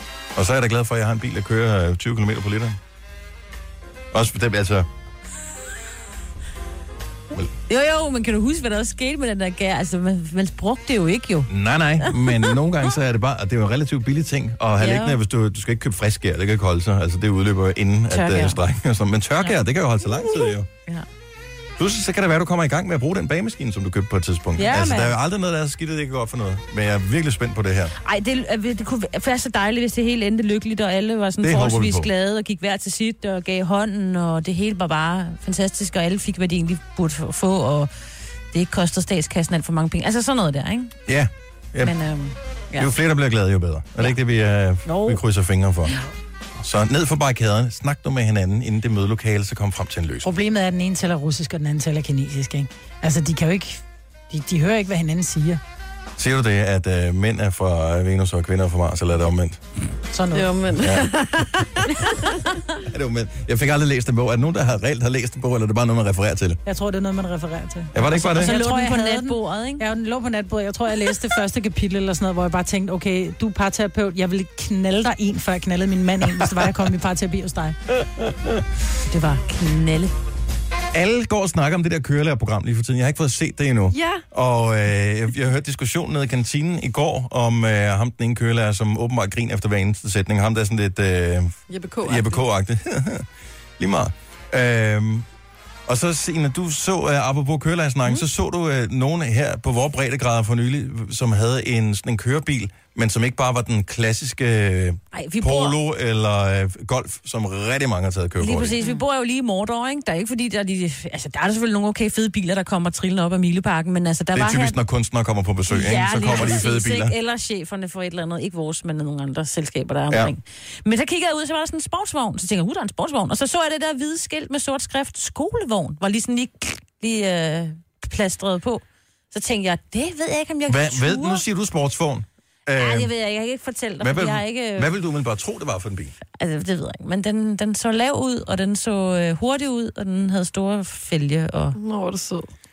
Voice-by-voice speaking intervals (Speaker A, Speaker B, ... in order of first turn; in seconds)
Speaker A: 0.3-2.8, 4.1-4.9, 11.5-20.7, 21.8-27.9, 31.4-32.1, 41.0-42.0, 42.8-46.0, 46.6-50.3, 56.2-59.6, 60.8-61.4, 62.8-66.6, 67.9-68.5, 80.9-93.3, 93.8-95.2, 95.9-108.8, 114.3-117.1, 130.7-133.1, 134.0-136.1
Speaker B: 7.7-12.5, 14.8-15.2, 18.1-18.6, 28.0-37.9, 38.5-40.9, 41.8-42.9, 44.9-45.2, 68.2-69.8, 79.1-80.1, 105.1-105.8, 108.4-114.8, 115.7-131.4, 132.7-134.9, 136.4-141.8
Speaker C: 24.6-25.1, 50.2-55.6, 60.1-60.9, 66.7-77.8
Speaker D: 60.3-62.2, 83.9-84.2, 91.7-92.4, 141.7-142.5